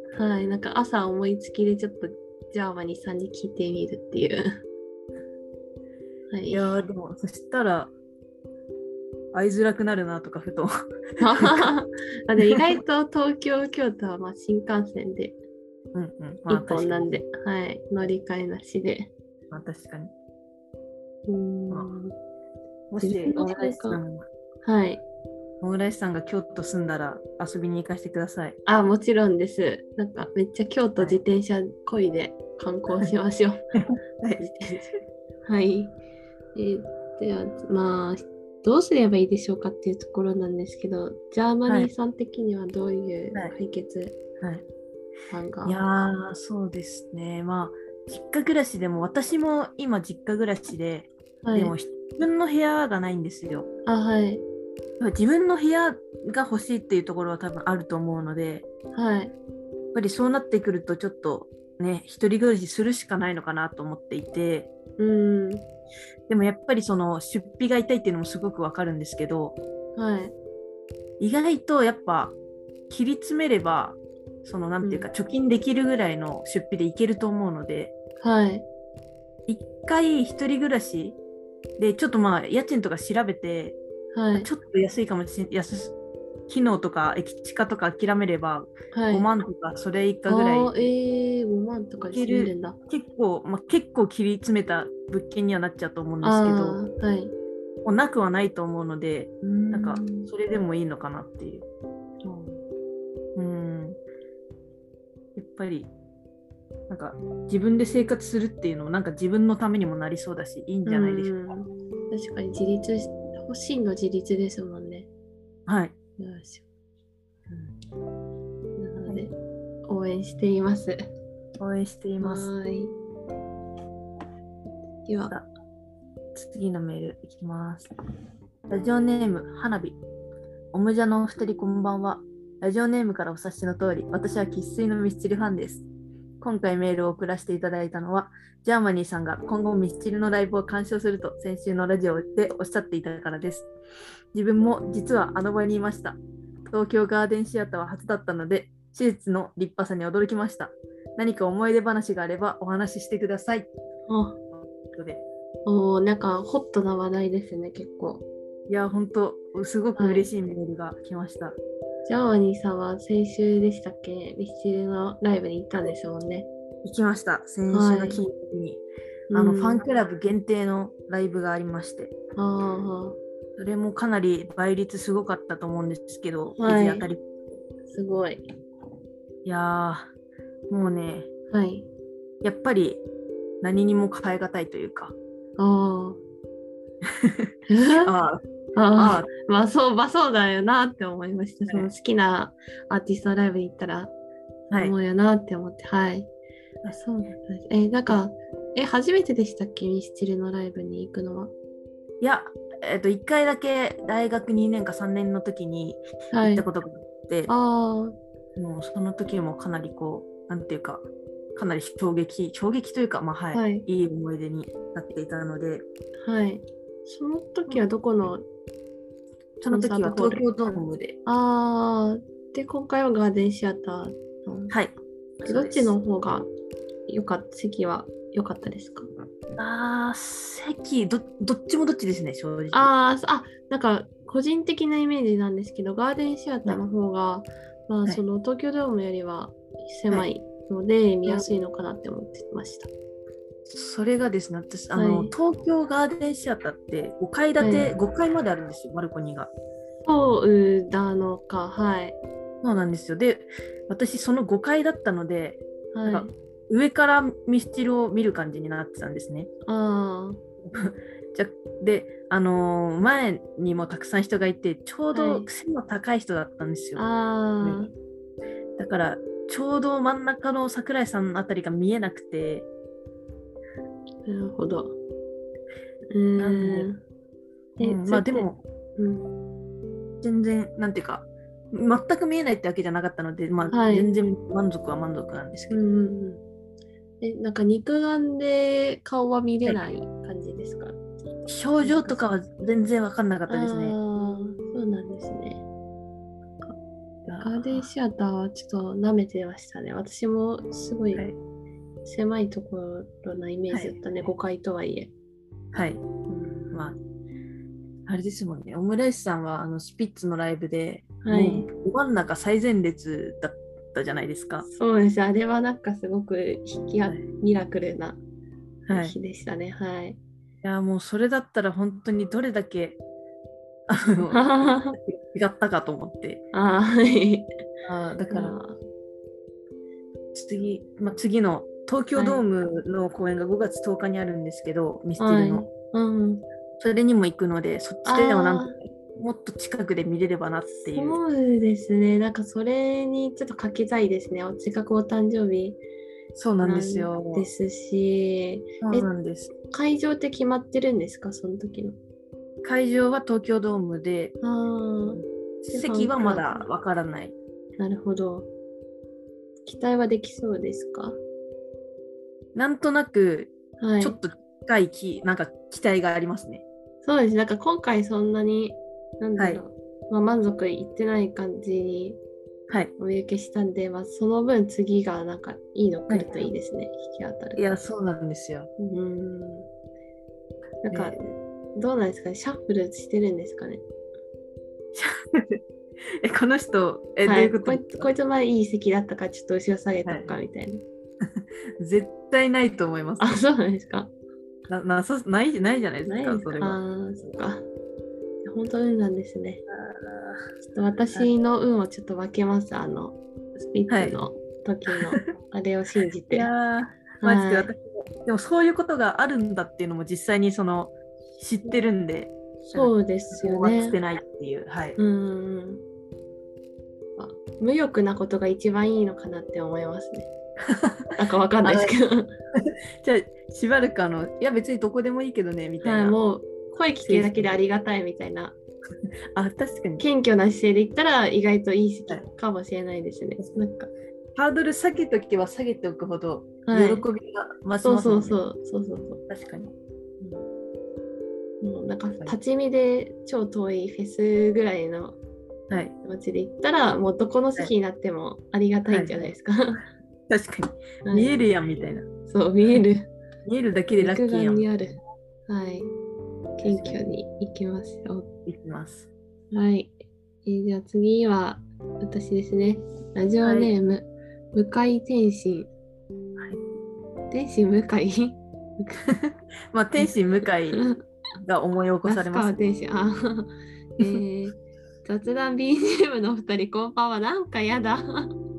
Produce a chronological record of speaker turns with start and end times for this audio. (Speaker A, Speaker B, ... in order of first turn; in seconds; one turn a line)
Speaker A: 0.1-4.6
Speaker A: 6.3-6.8
Speaker B: 6.5-7.9
Speaker B: 9.3-11.7
Speaker A: 11.2-15.4
Speaker B: 15.9-17.1
Speaker A: 16.5-19.1
Speaker B: 19.5-20.1
Speaker A: 21.3-22.1
Speaker B: 22.9-24.2
Speaker A: 23.0-24.0
Speaker A: 24.6-25.0
Speaker B: 25.6-28.6
Speaker A: 28.7-33.6
Speaker B: 33.7-34.5
Speaker A: 34.4-34.9
Speaker A: 35.5-36.0
Speaker A: 36.5-44.2
Speaker B: 44.4-44.6
Speaker A: 45.3-45.8
Speaker B: 45.6-53.7
Speaker A: 51.4-51.8
Speaker A: 53.9-54.4
Speaker B: 55.0-58.7
Speaker A: 58.9-59.3
Speaker B: 59.9-64.7
Speaker A: 65.0-65.7
Speaker B: 66.3-69.6
Speaker A: 70.0-70.3
Speaker B: 71.2-72.3
Speaker B: 72.9-77.9
Speaker A: 74.8-75.1
Speaker A: 78.2-78.7
Speaker B: 79.5-81.2
Speaker B: 81.8-83.8
Speaker A: 84.1-84.5
Speaker B: 84.4-85.9
Speaker B: 86.5-90.9
Speaker A: 88.9-89.3
Speaker A: 90.3-92.8
Speaker B: 92.1-96.8
Speaker A: 96.2-97.3
Speaker B: 97.8-101.7
Speaker A: 99.4-100.3
Speaker A: 102.2-102.6
Speaker B: 103.3-104.0
Speaker B: 105.3-105.9
Speaker B: 106.9-111.4
Speaker A: 110.9-115.1
Speaker B: 115.7-116.0
Speaker A: 116.2-116.7
Speaker A: 118.8-119.3
Speaker A: 119.9-121.0
Speaker B: 121.6-122.5
Speaker A: 122.2-122.9
Speaker A: 125.0-125.3
Speaker B: 126.3-127.9
Speaker B: 128.7-130.0
Speaker B: 130.7-135.9
Speaker B: 136.4-143.7
Speaker B: 144.3-153.7
Speaker A: 154.1-154.4
Speaker B: 154.5-155.2
Speaker A: 155.7-158.2
Speaker B: 158.7-161.6
Speaker A: 160.0-160.3
Speaker A: 162.1-166.5
Speaker B: 166.8-168.8
Speaker A: 167.7-168.2
Speaker A: 169.3-169.8
Speaker B: 169.3-172.1
Speaker A: 172.4-173.2
Speaker B: 173.6-177.3
Speaker A: 176.6-177.1
Speaker A: 177.9-178.4
Speaker B: 179.4-180.1
Speaker B: 180.7-181.3
Speaker A: 181.5-181.9
Speaker B: 182.4-183.0
Speaker B: 183.6-185.2
Speaker A: 185.6-186.2
Speaker B: 187.2-187.5
Speaker A: 187.7-188.1
Speaker B: 188.0-188.4
Speaker A: 188.8-194.1
Speaker B: 188.9-189.3
Speaker A: 194.7-196.3
Speaker A: 196.9-201.5
Speaker B: 202.2-207.5
Speaker A: 206.3-206.7
Speaker A: 207.5-208.2
Speaker B: 208.6-215.8
Speaker A: 213.5-213.9
Speaker A: 216.2-218.4
Speaker B: 219.6-221.2
Speaker A: 219.7-224.8
Speaker B: 224.7-225.9
Speaker A: 225.4-226.5
Speaker A: 227.1-229.1
Speaker B: 229.6-232.9
Speaker A: 232.7-242.9
Speaker B: 241.3-241.5
Speaker B: 243.7-249.5
Speaker A: 244.9-245.3
Speaker A: 247.6-247.9
Speaker A: 250.1-252.2
Speaker B: 252.6-259.5
Speaker A: 255.9-256.3
Speaker A: 259.7-260.4
Speaker B: 260.6-267.1
Speaker A: 265.1-265.5
Speaker A: 267.0-267.9
Speaker B: 268.8-272.7
Speaker A: 274.3-275.0
Speaker A: 276.1-277.0
Speaker B: 276.4-276.9
Speaker A: 277.8-279.4
Speaker B: 277.8-278.6
Speaker B: 280.2-285.8
Speaker A: 283.7-284.1
Speaker A: 285.7-286.4
Speaker A: 287.2-291.0
Speaker B: 291.5-294.0
Speaker A: 291.8-292.3
Speaker A: 293.5-295.6
Speaker B: 297.3-297.8
Speaker A: 297.4-301.3
Speaker A: 302.1-305.1
Speaker B: 303.7-304.0
Speaker B: 305.7-306.0
Speaker A: 306.3-306.9
Speaker B: 308.1-314.6
Speaker A: 311.2-311.7
Speaker A: 314.6-318.2
Speaker B: 318.9-319.1
Speaker A: 318.9-320.2
Speaker B: 320.6-323.0
Speaker B: 323.9-326.4
Speaker A: 324.3-325.0
Speaker A: 326.5-327.5
Speaker B: 327.9-328.6
Speaker A: 328.3-328.8
Speaker B: 330.3-335.7
Speaker A: 332.1-332.4
Speaker A: 335.2-336.4
Speaker B: 336.8-341.2
Speaker A: 338.1-338.8
Speaker A: 340.9-345.8
Speaker B: 346.4-347.5
Speaker A: 346.6-349.1
Speaker B: 348.8-349.5
Speaker A: 349.7-352.0
Speaker B: 352.6-354.4
Speaker A: 354.4-356.6
Speaker B: 355.1-357.4
Speaker A: 357.8-358.5
Speaker A: 359.6-361.2
Speaker B: 362.6-366.6
Speaker A: 363.8-364.2
Speaker A: 367.0-372.2
Speaker B: 369.4-369.6
Speaker A: 373.0-377.6
Speaker B: 376.1-376.5
Speaker B: 377.6-378.7
Speaker A: 378.8-379.7
Speaker A: 380.8-383.8
Speaker B: 384.9-388.1
Speaker A: 387.2-390.8
Speaker B: 390.1-390.3
Speaker B: 391.2-393.4
Speaker A: 393.2-394.1
Speaker B: 394.7-396.8
Speaker A: 396.1-397.7
Speaker A: 398.4-399.6
Speaker B: 399.7-400.4
Speaker A: 400.6-406.5
Speaker B: 403.9-404.2
Speaker B: 404.9-405.2
Speaker B: 406.3-415.0
Speaker A: 407.2-407.7
Speaker A: 412.7-414.0
Speaker A: 415.0-415.8
Speaker A: 417.2-420.3
Speaker B: 420.7-421.1
Speaker A: 421.1-422.3
Speaker B: 421.6-421.9
Speaker B: 422.6-426.2
Speaker A: 425.8-428.6
Speaker B: 427.0-427.5
Speaker B: 429.3-430.1
Speaker A: 430.0-433.9
Speaker B: 434.4-438.4
Speaker A: 436.7-437.1
Speaker A: 437.8-439.2
Speaker B: 439.3-439.7
Speaker A: 441.6-445.2
Speaker A: 446.0-449.8
Speaker B: 448.9-449.3
Speaker B: 450.3-452.1
Speaker A: 451.1-451.4
Speaker A: 452.3-453.1
Speaker B: 453.5-454.7
Speaker A: 454.0-455.9
Speaker A: 456.6-458.3
Speaker B: 456.6-457.0
Speaker B: 458.5-459.1
Speaker A: 459.5-465.7
Speaker B: 463.4-463.7
Speaker B: 466.4-466.6
Speaker A: 467.3-469.1
Speaker B: 469.1-470.8
Speaker A: 470.7-471.0
Speaker B: 471.4-472.6
Speaker A: 472.1-478.3